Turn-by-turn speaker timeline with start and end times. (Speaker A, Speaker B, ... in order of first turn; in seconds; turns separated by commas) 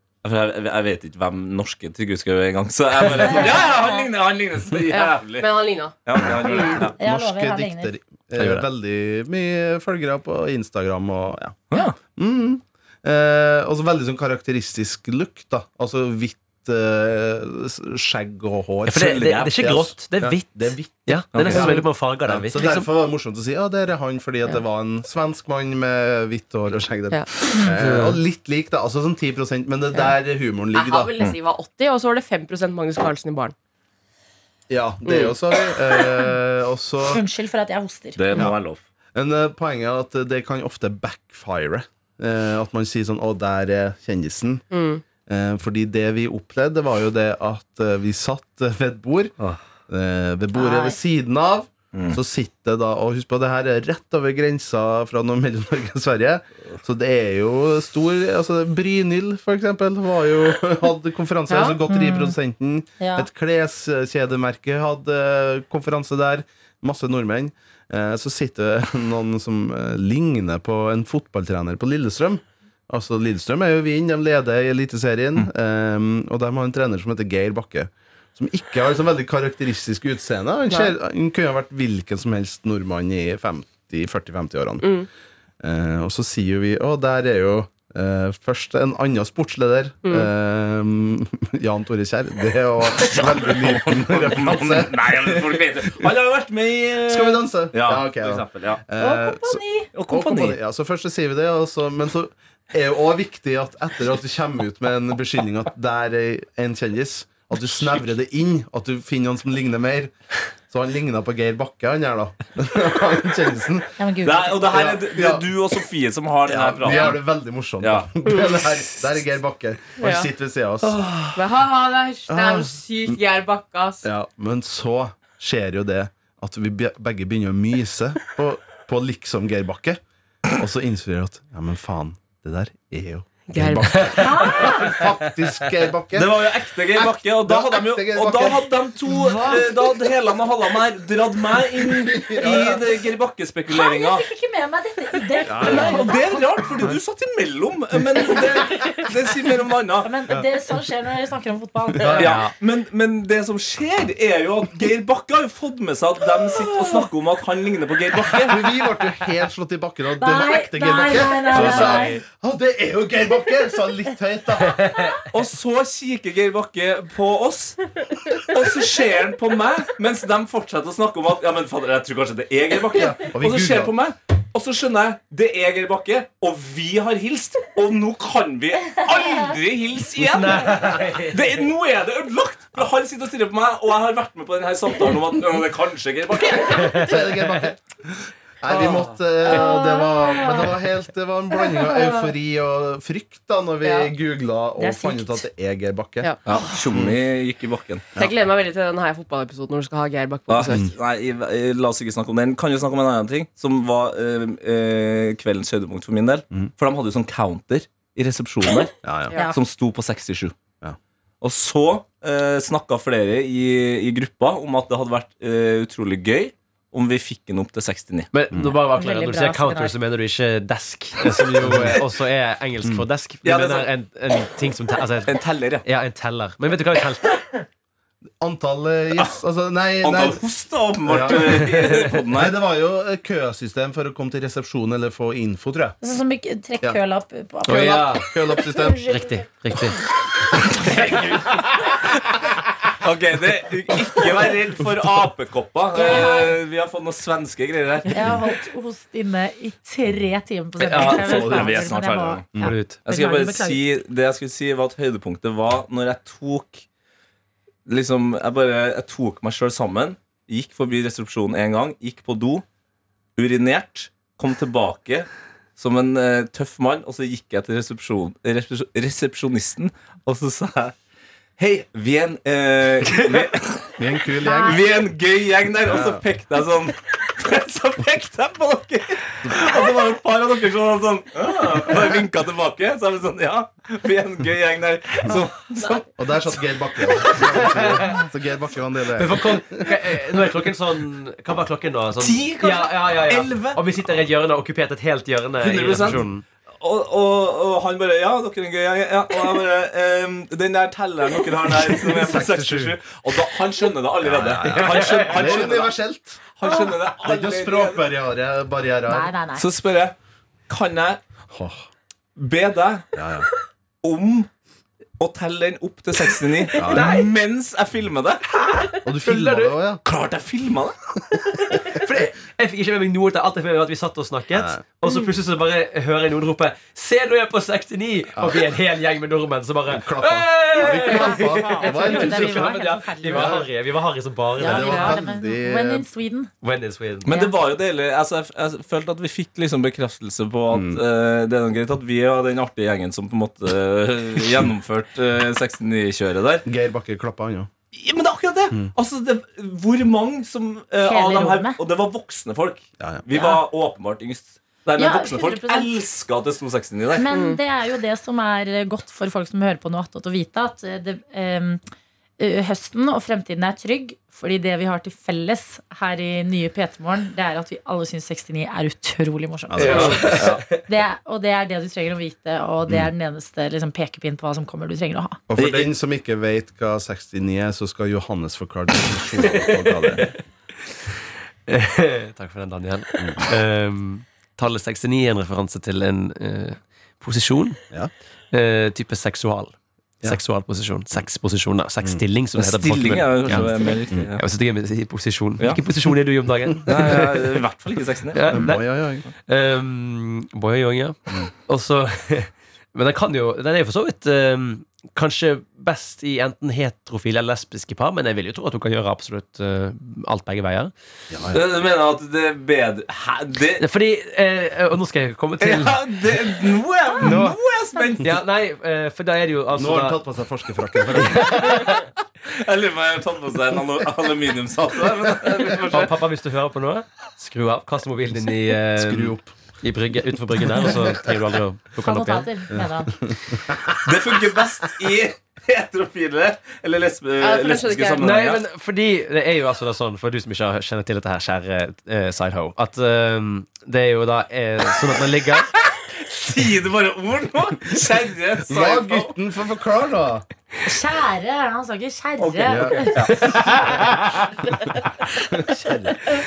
Speaker A: 0.2-5.5, Speaker B: 3.2-4.0, Speaker C: 4.9-6.8, Speaker A: 6.0-7.0, Speaker D: 6.6-11.6, Speaker B: 7.0-7.9, Speaker E: 8.4-8.7, Speaker A: 11.7-12.0, Speaker D: 12.2-31.1, Speaker E: 18.9-22.9, Speaker A: 19.0-19.5, Speaker A: 21.3-21.7, Speaker C: 21.5-21.9, Speaker E: 27.8-28.2, Speaker C: 30.7-33.5, Speaker D: 34.7-37.2, Speaker C: 35.1-35.4, Speaker B: 37.1-38.2, Speaker A: 38.2-38.8, Speaker D: 39.1-44.6, Speaker C: 44.7-45.0, Speaker D: 45.3-49.3, Speaker D: 49.9-85.0, Speaker B: 50.5-51.0, Speaker A: 51.9-52.2, Speaker C: 61.5-61.8, Speaker B: 61.9-62.4, Speaker B: 63.0-63.3, Speaker C: 84.8-85.1, Speaker D: 85.6-96.1, Speaker A: 92.9-98.8, Speaker D: 97.1-110.1, Speaker B: 99.0-99.9, Speaker A: 99.9-100.6, Speaker D: 110.7-114.0, Speaker B: 114.0-114.7, Speaker A: 114.2-117.2, Speaker D: 114.7-115.5, Speaker D: 116.5-121.1, Speaker A: 117.8-118.1, Speaker C: 118.3-118.6, Speaker C: 120.0-120.3, Speaker A: 120.8-121.3, Speaker C: 121.4-124.0, Speaker D: 122.3-122.7, Speaker D: 124.0-139.6, Speaker C: 133.5-134.2, Speaker E: 133.9-134.9, Speaker B: 134.2-135.1, Speaker A: 136.1-144.3, Speaker B: 139.2-139.6, Speaker D: 141.8-142.8, Speaker B: 143.7-146.4, Speaker D: 145.4-146.2, Speaker A: 145.6-150.1, Speaker B: 150.0-152.4, Speaker D: 151.9-152.4, Speaker E: 152.0-152.5, Speaker A: 152.1-158.7, Speaker D: 158.3-165.1, Speaker B: 160.2-162.1, Speaker A: 161.5-162.1, Speaker E: 161.6-162.1, Speaker A: 165.3-187.2, Speaker D: 172.9-173.9, Speaker E: 180.2-181.6, Speaker E: 186.7-187.1, Speaker D: 186.8-196.3, Speaker B: 189.4-190.8, Speaker B: 191.6-192.3, Speaker C: 193.8-194.1, Speaker B: 194.8-195.4, Speaker A: 196.5-198.1, Speaker C: 198.2-200.9, Speaker A: 200.5-210.6, Speaker D: 209.0-209.3, Speaker A: 211.4-218.3, Speaker E: 218.3-227.6, Speaker B: 218.9-219.9, Speaker D: 221.6-222.0, Speaker A: 223.4-223.9, Speaker A: 225.3-225.8, Speaker D: 228.4-230.4, Speaker A: 230.0-232.6, Speaker D: 231.1-236.0, Speaker E: 231.6-232.1, Speaker B: 236.0-239.4, Speaker E: 237.7-238.3, Speaker D: 237.7-239.1, Speaker E: 239.1-241.7, Speaker A: 241.5-242.3, Speaker A: 243.0-248.4, Speaker B: 245.9-246.6, Speaker B: 248.1-253.8, Speaker E: 250.8-251.7, Speaker A: 250.8-252.5, Speaker D: 251.3-251.8, Speaker E: 252.6-253.0, Speaker A: 253.1-256.9, Speaker A: 257.9-262.6, Speaker A: 263.4-270.9, Speaker A: 271.6-274.0, Speaker D: 274.0-274.9, Speaker B: 274.4-274.8, Speaker A: 274.6-287.7, Speaker D: 275.9-276.2, Speaker D: 279.4-279.7, Speaker D: 286.2-290.0, Speaker E: 287.5-288.2, Speaker E: 289.2-296.4, Speaker A: 292.2-293.8, Speaker A: 295.6-296.2, Speaker A: 296.8-305.9, Speaker D: 301.9-302.9, Speaker D: 304.2-306.4, Speaker E: 304.7-305.6, Speaker A: 306.6-308.0, Speaker D: 307.1-309.3, Speaker B: 309.1-309.6, Speaker A: 309.6-310.1, Speaker A: 310.7-311.2, Speaker D: 311.5-311.9, Speaker A: 312.4-313.1, Speaker D: 313.1-313.5, Speaker A: 314.0-314.5, Speaker A: 315.2-318.4, Speaker D: 316.8-317.2, Speaker E: 316.8-317.3, Speaker E: 318.5-319.8, Speaker D: 319.1-320.0, Speaker A: 320.0-321.0, Speaker E: 321.7-335.1, Speaker D: 324.5-324.8, Speaker D: 328.4-328.7, Speaker D: 329.9-332.8, Speaker B: 330.9-333.6, Speaker D: 333.3-333.7, Speaker B: 334.6-336.5, Speaker D: 334.6-336.1, Speaker C: 334.9-335.1, Speaker E: 336.6-337.3, Speaker A: 337.2-346.7, Speaker B: 337.3-337.5, Speaker D: 340.7-341.0, Speaker D: 346.6-347.7, Speaker A: 347.9-357.3, Speaker B: 351.1-351.8, Speaker B: 353.3-353.6, Speaker B: 355.0-355.9, Speaker B: 357.2-361.8, Speaker C: 357.3-357.6, Speaker B: 362.4-375.4, Speaker D: 369.7-370.6, Speaker E: 369.8-370.8, Speaker A: 369.8-370.6, Speaker D: 375.5-380.3, Speaker A: 375.6-375.9, Speaker E: 379.5-380.4, Speaker E: 381.7-387.8, Speaker D: 383.2-383.4, Speaker E: 388.5-397.6, Speaker A: 392.6-394.4, Speaker A: 396.9-398.7, Speaker E: 398.3-410.9, Speaker D: 398.5-399.3, Speaker D: 411.3-411.6, Speaker A: 411.5-413.8, Speaker E: 413.8-416.0, Speaker A: 415.6-418.3, Speaker E: 417.2-417.6, Speaker E: 418.2-420.2, Speaker D: 419.7-421.9, Speaker E: 421.1-422.0, Speaker A: 422.4-426.1, Speaker E: 425.9-432.5, Speaker D: 428.9-429.5, Speaker D: 430.8-431.3, Speaker B: 432.0-433.2, Speaker D: 432.7-434.0, Speaker A: 434.0-438.6, Speaker C: 437.4-438.4, Speaker E: 438.2-445.7, Speaker A: 445.8-449.3, Speaker D: 448.7-450.5, Speaker B: 450.9-453.3, Speaker A: 452.4-453.9, Speaker D: 452.6-454.1, Speaker E: 453.3-454.5, Speaker D: 455.5-456.2